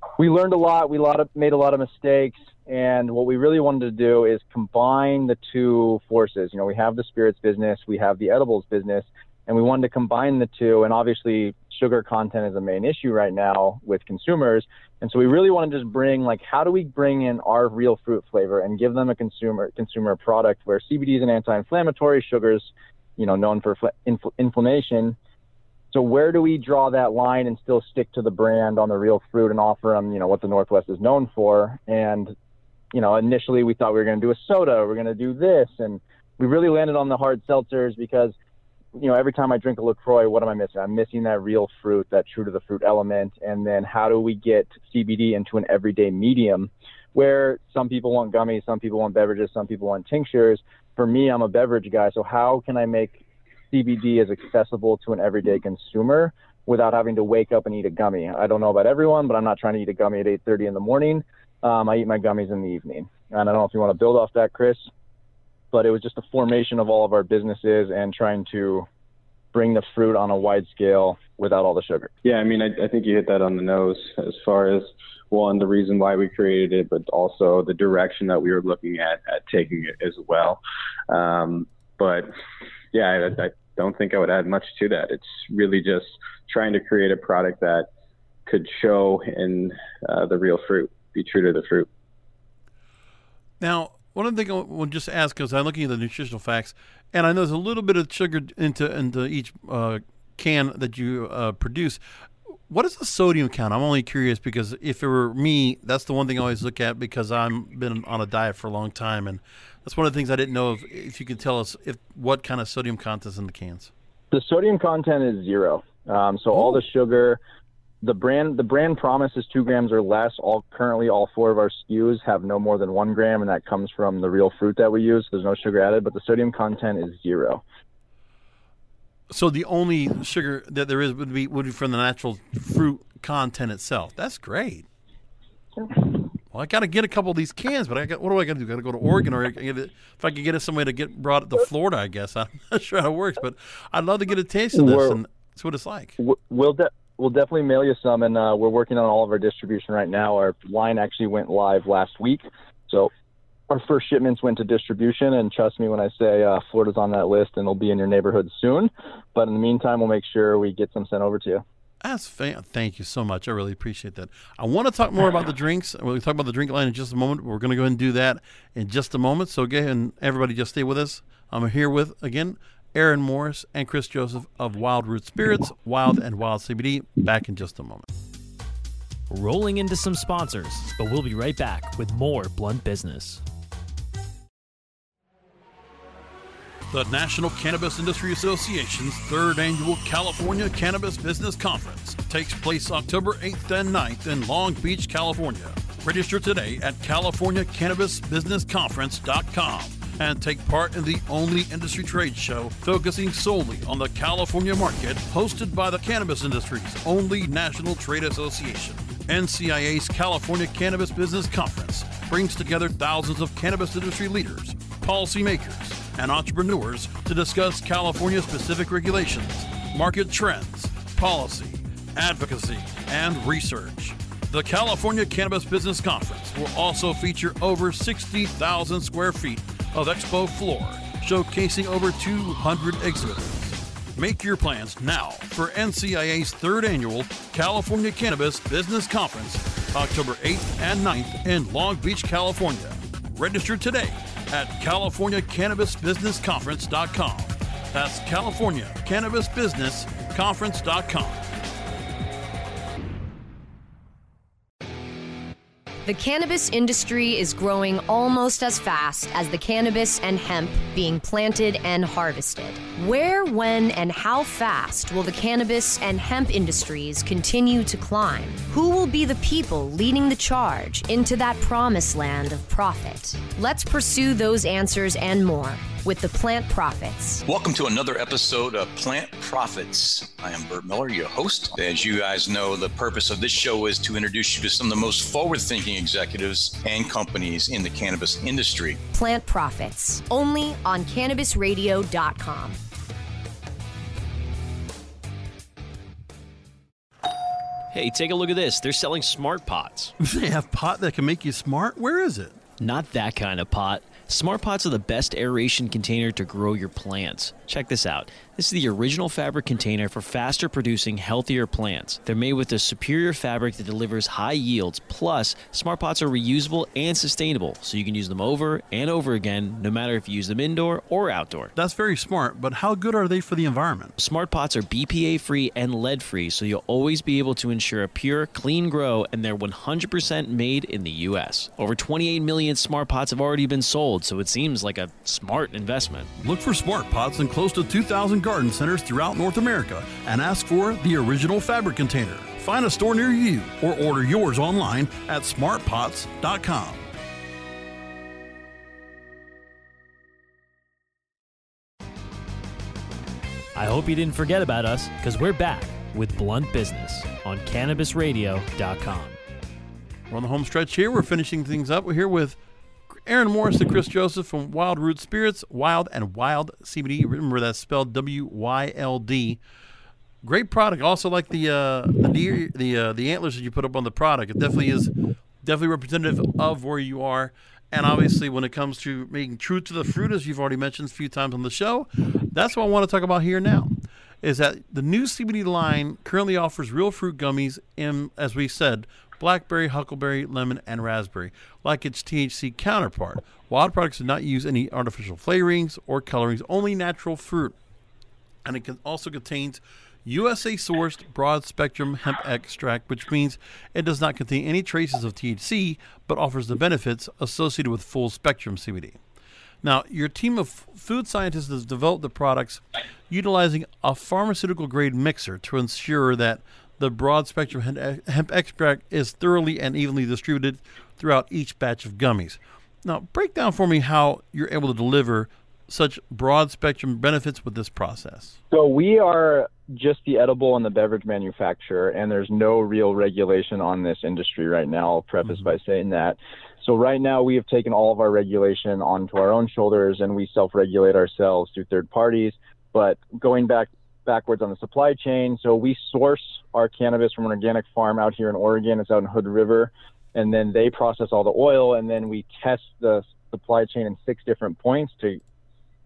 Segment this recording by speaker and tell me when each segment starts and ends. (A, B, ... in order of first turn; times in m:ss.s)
0:00.2-0:25.2 A
0:25.9-0:32.3 A
0:32.9-0:38.3 A
0:38.9-1:04.8 A
1:05.7-1:08.9 A
1:09.5-1:12.1 A
1:12.2-1:22.3 B
1:22.9-1:27.9 B
1:28.5-1:31.9 B
1:33.6-1:42.0 C
1:42.7-1:53.9 C
1:54.3-1:57.4 A
1:58.0-2:07.6 A
2:09.3-2:14.8 C
2:16.5-2:26.2 C
2:24.7-2:25.2 A
2:26.2-2:33.1 A
2:33.7-2:41.6 A
2:42.0-2:58.1 C
2:59.3-3:03.4 D
3:06.9-4:11.4 C
4:16.0-4:37.4 E
4:37.4-4:49.0 F
4:49.1-4:52.8 E
4:57.9-5:00.1 D
5:00.2-5:02.6 C
5:02.8-5:21.7 D
5:21.8-5:24.2 C
5:24.2-5:36.3 D
5:36.4-5:47.0 C
5:53.7-5:59.4 D
6:00.3-6:02.6 C
6:03.1-6:09.6 C
6:10.4-6:15.1 C
6:15.6-6:37.8 C
6:38.6-6:49.2 C
6:49.8-7:08.6 C
7:08.7-7:35.4 A